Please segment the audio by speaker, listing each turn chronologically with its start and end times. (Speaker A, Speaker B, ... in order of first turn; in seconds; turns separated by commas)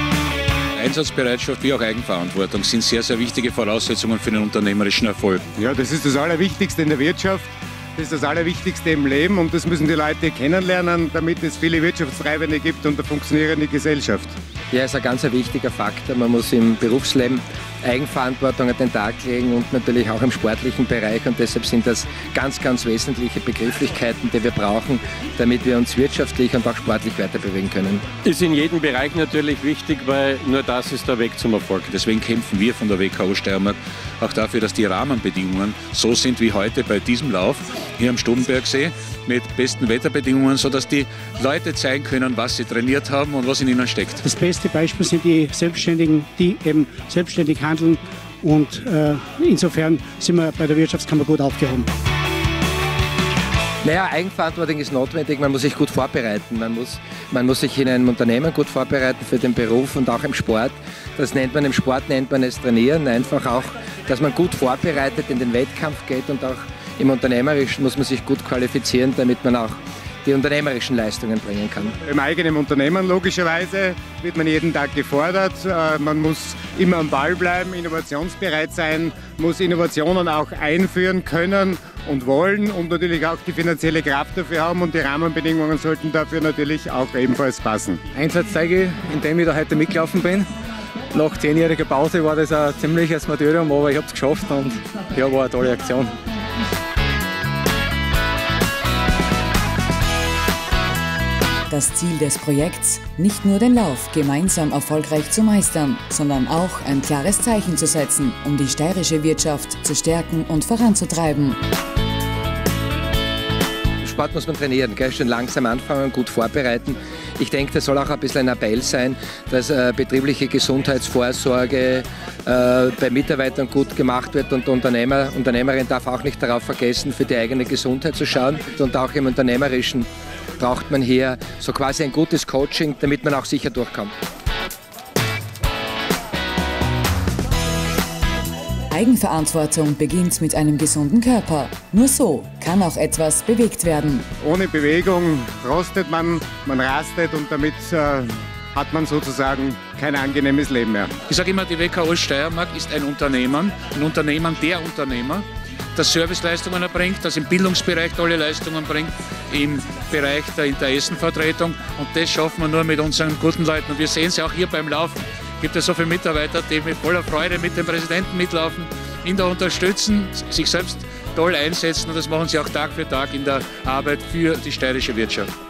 Speaker A: 0.8-5.4, Speaker B: 5.5-14.3, Speaker C: 14.7-28.0, Speaker D: 28.2-31.9, Speaker A: 31.8-44.2, Speaker E: 44.2-51.9, Speaker C: 53.8-72.0, Speaker B: 72.0-88.0, Speaker F: 88.1-90.5, Speaker F: 91.1-96.1, Speaker G: 101.7-111.6, Speaker C: 114.0-134.2, Speaker G: 138.9-144.2, Speaker B: 144.4-151.1, Speaker A: 151.3-175.5